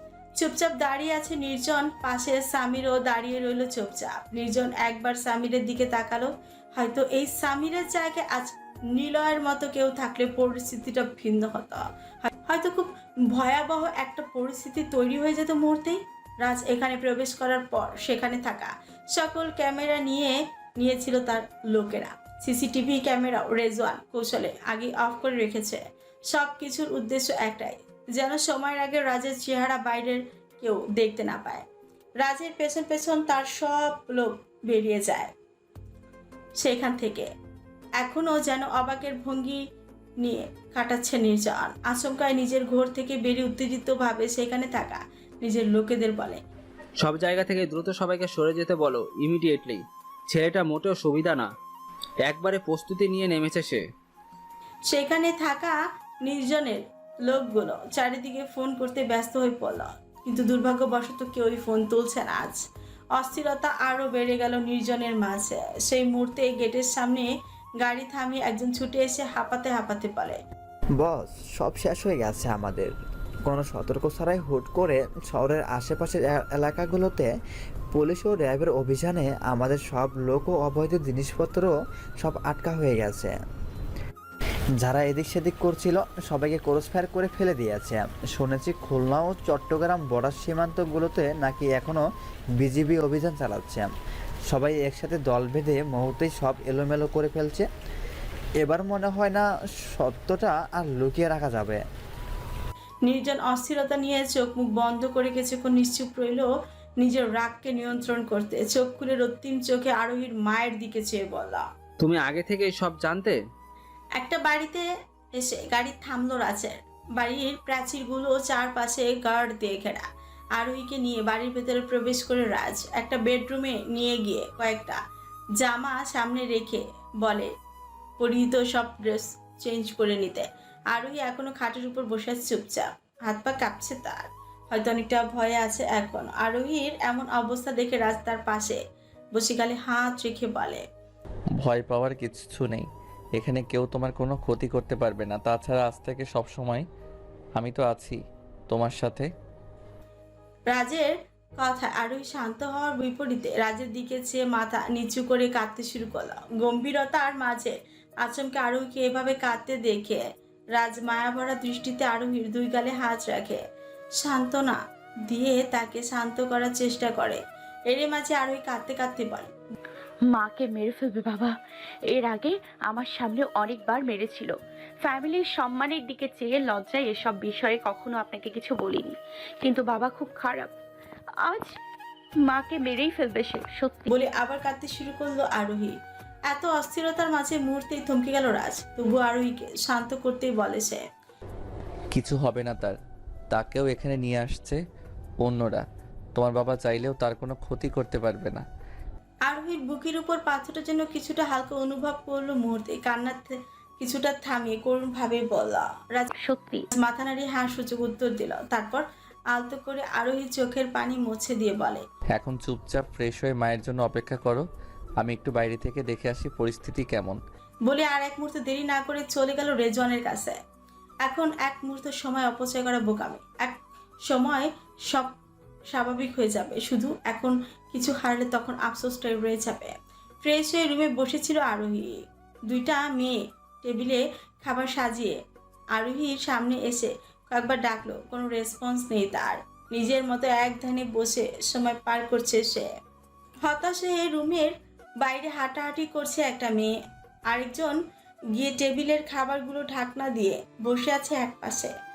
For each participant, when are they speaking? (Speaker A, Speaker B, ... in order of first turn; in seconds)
Speaker A: 0.4-11.8, 12.4-31.6, 32.2-35.3, 36.6-37.3, 38.0-39.6, 40.2-46.4, 54.9-62.6, 63.2-67.3, 67.8-70.4, 103.0-111.7, 114.2-125.0, 125.6-127.5, 128.2-138.8, 139.3-140.8, 150.7-160.2, 160.7-163.6, 164.2-169.5, 184.1-185.9, 186.5-191.1, 199.5-206.2, 206.9-212.0, 217.8-220.6, 221.2-225.3, 225.9-235.4, 235.9-242.9, 243.6-247.0, 247.5-248.0, 248.5-251.9
Speaker B: 47.0-51.5, 52.2-53.8, 112.0-113.4
Speaker C: 71.0-72.9, 73.5-77.3, 77.9-83.3, 84.8-92.0, 92.6-93.9, 94.5-97.7, 98.6-99.4, 100.0-101.8
Speaker D: 141.6-146.8, 147.6-149.3, 192.1-193.0, 193.5-194.8, 195.4-198.6, 212.3-214.6, 215.2-217.4
Speaker E: 170.3-171.5, 172.1-180.7, 181.4-181.7, 182.4-184.1, 206.4-206.8